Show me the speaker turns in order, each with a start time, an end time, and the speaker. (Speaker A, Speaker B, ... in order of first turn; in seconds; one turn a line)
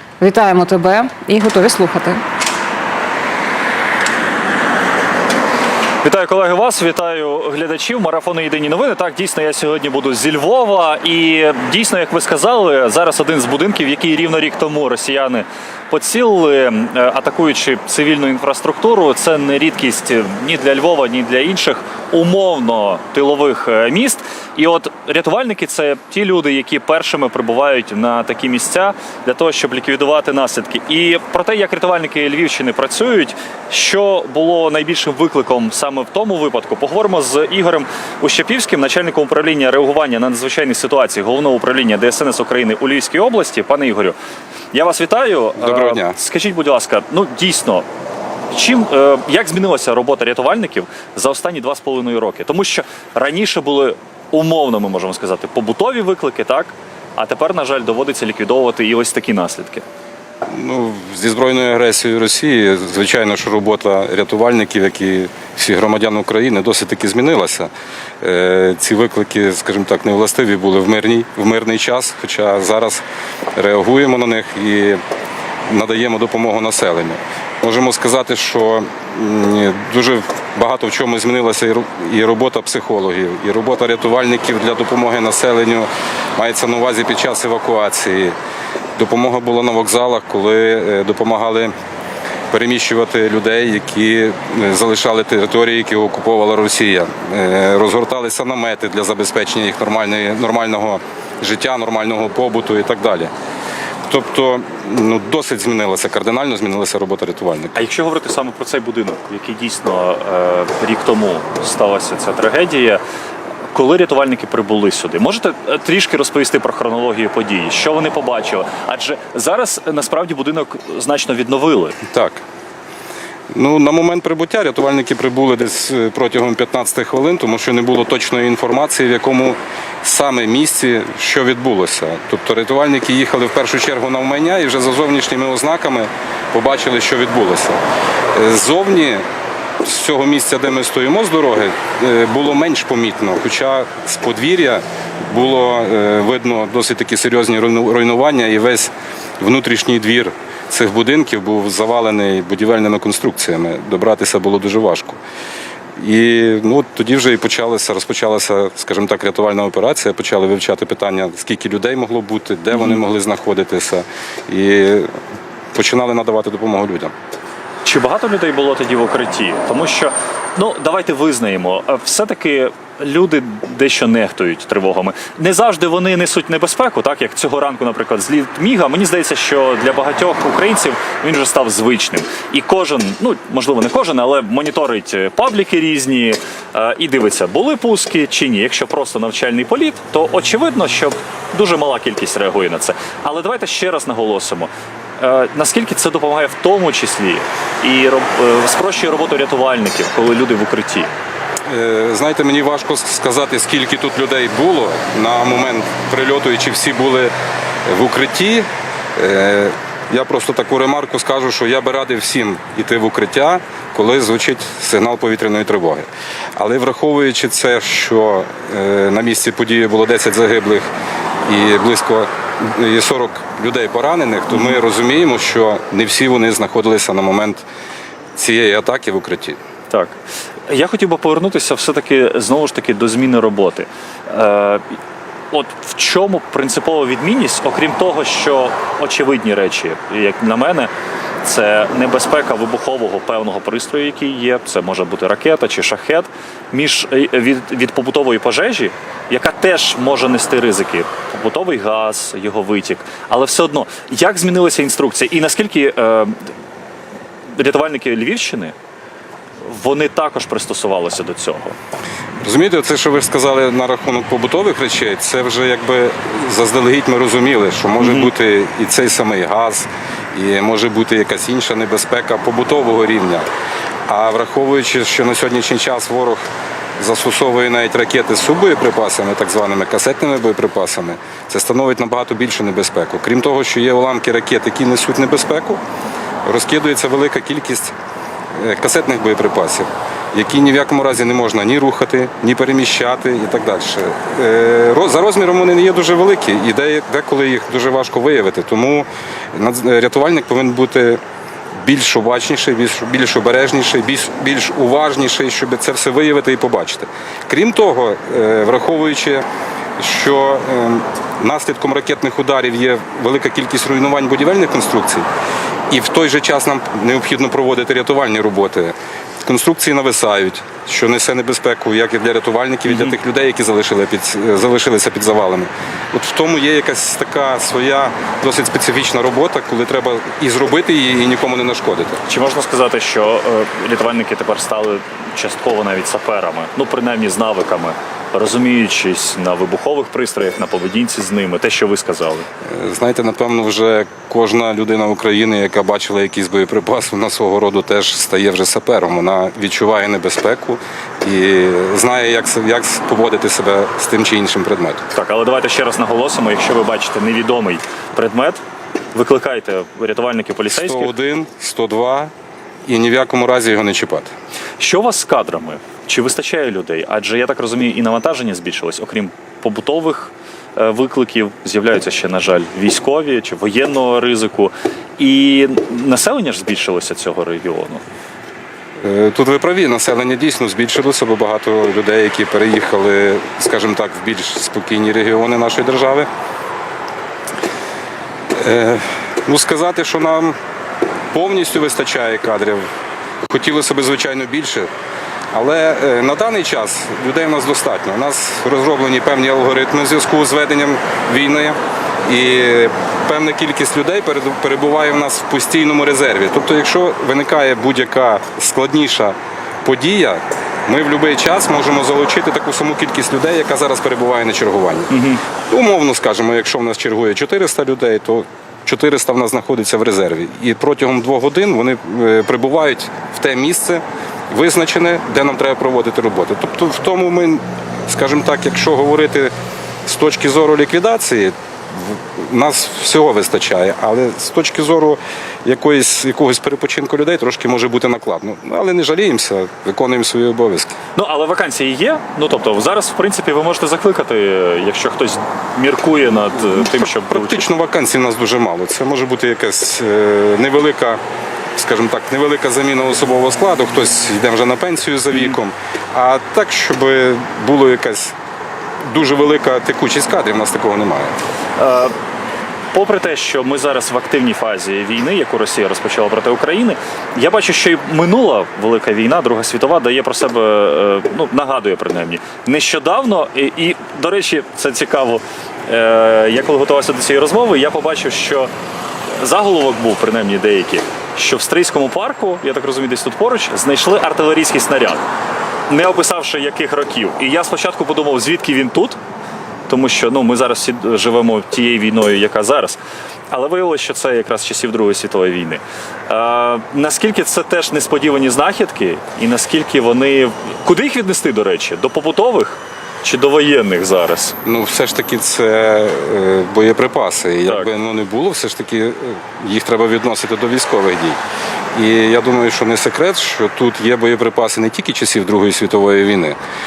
Speaker A: 0.2-2.2
Speaker B: 6.0-44.2
Speaker B: 44.7-47.9
Speaker C: 45.6-46.2
Speaker B: 48.5-59.8
Speaker C: 60.5-73.0
Speaker C: 73.6-75.0
Speaker C: 75.7-88.3
Speaker C: 89.0-91.7
Speaker C: 92.5-103.3
Speaker C: 104.1-107.9
Speaker B: 107.8-113.0
Speaker B: 113.7-122.0
Speaker C: 122.1-122.4
Speaker C: 123.5-137.8
Speaker C: 138.3-139.2
Speaker C: 139.8-155.2
Speaker C: 156.0-165.1
Speaker C: 165.7-167.1
Speaker B: 167.8-201.1
Speaker C: 201.7-207.3
Speaker C: 207.9-220.9
Speaker C: 221.4-227.7
Speaker B: 224.5-224.8
Speaker C: 228.3-229.6
Speaker B: 229.9-234.9
Speaker B: 235.5-240.9
Speaker B: 241.4-256.5
Speaker B: 257.5-258.8
Speaker B: 259.6-261.8
Speaker C: 262.4-273.5
Speaker B: 268.0-268.3
Speaker C: 274.1-276.5
Speaker C: 277.0-285.8
Speaker C: 286.4-287.9
Speaker C: 288.5-301.2
Speaker C: 301.8-309.4
Speaker C: 310.0-315.2
Speaker C: 315.9-332.2
Speaker B: 322.9-323.1
Speaker B: 332.2-342.5
Speaker C: 342.6-355.0
Speaker B: 355.1-358.6
Speaker B: 359.1-361.1
Speaker C: 360.7-362.3
Speaker C: 362.9-364.3
Speaker B: 364.8-378.0
Speaker C: 379.0-386.3
Speaker C: 388.6-390.5
Speaker C: 391.3-392.9
Speaker C: 393.4-394.9
Speaker C: 395.5-401.8
Speaker C: 402.3-429.5
Speaker B: 415.1-415.4
Speaker C: 430.0-440.9
Speaker B: 441.1-447.7
Speaker C: 446.8-451.2
Speaker C: 451.8-458.4
Speaker C: 459.0-461.3
Speaker B: 461.8-462.1
Speaker B: 462.9-478.7
Speaker B: 479.3-485.2
Speaker B: 485.9-489.2
Speaker B: 489.9-493.0
Speaker B: 493.5-504.6
Speaker C: 504.6-511.4
Speaker B: 507.6-507.9
Speaker C: 511.9-516.6